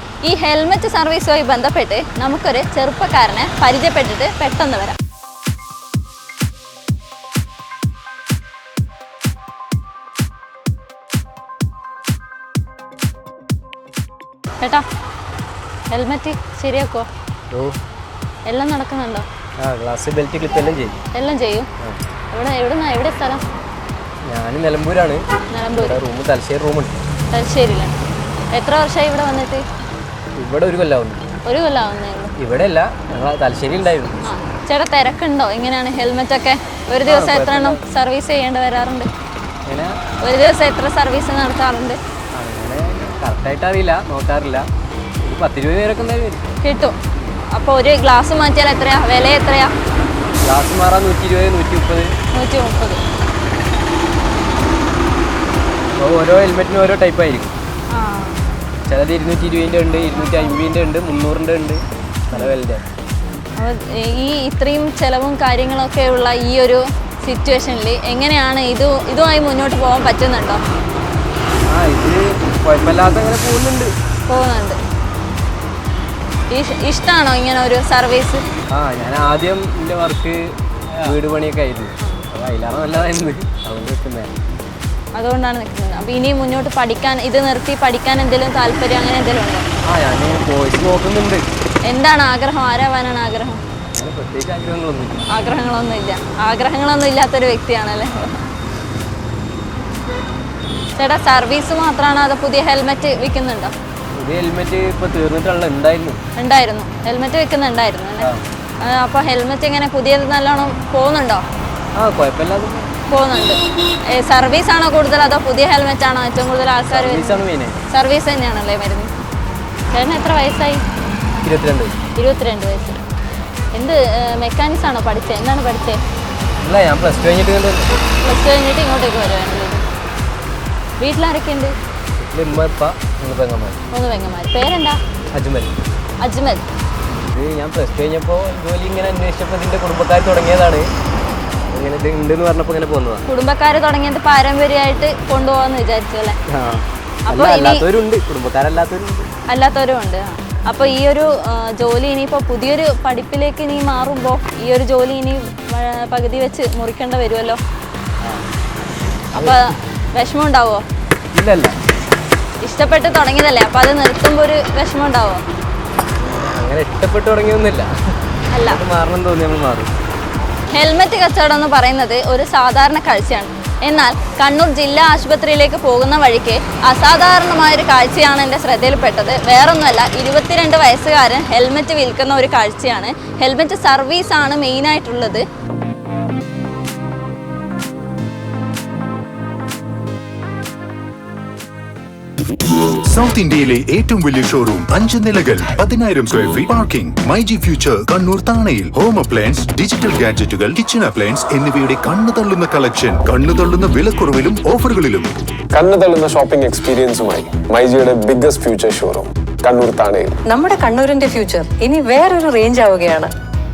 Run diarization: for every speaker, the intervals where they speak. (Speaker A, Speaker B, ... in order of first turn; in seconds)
Speaker A: 0.2-5.0, 14.6-14.8, 15.9-17.1, 18.5-19.3, 21.1-21.7, 22.3-23.4, 25.5-26.0, 27.3-27.9, 28.5-29.6, 31.4-32.3, 34.2-39.1, 40.2-42.0, 46.6-47.0, 47.5-49.7, 52.3-53.0, 57.9-58.4, 63.6-70.6, 74.3-74.8, 76.5-78.4, 85.1-89.6, 91.8-93.6, 95.3-98.4, 101.0-103.7, 106.4-108.3, 108.8-111.4, 113.1-119.1, 119.9-120.8, 122.2-123.0, 123.8-126.0, 128.2-129.8, 131.0-131.7, 133.9-135.0, 136.2-136.6, 143.3-146.4, 147.3-147.8, 149.5-157.6, 159.3-160.8, 162.6-165.4, 168.5-168.8, 170.7-185.4
Speaker B: 17.5-17.8, 19.6-21.0, 24.3-25.2, 25.8-26.9, 30.4-31.2, 32.4-34.2, 37.1-37.8, 39.7-40.0, 42.3-44.7, 45.2-46.5, 50.4-52.1, 56.0-57.5, 58.9-62.8, 71.7-73.9, 78.7-84.3, 89.8-91.4, 93.9-95.2, 104.2-106.2, 112.0-112.9, 116.9-117.8, 121.4-121.9, 126.6-128.0, 132.2-133.8, 135.3-135.7, 137.1-140.9, 141.7-143.3, 146.5-149.3, 161.3-161.8, 166.2-167.9, 168.7-169.9
Speaker C: 193.1-205.3
Speaker D: 205.7-210.3
Speaker E: 210.5-213.3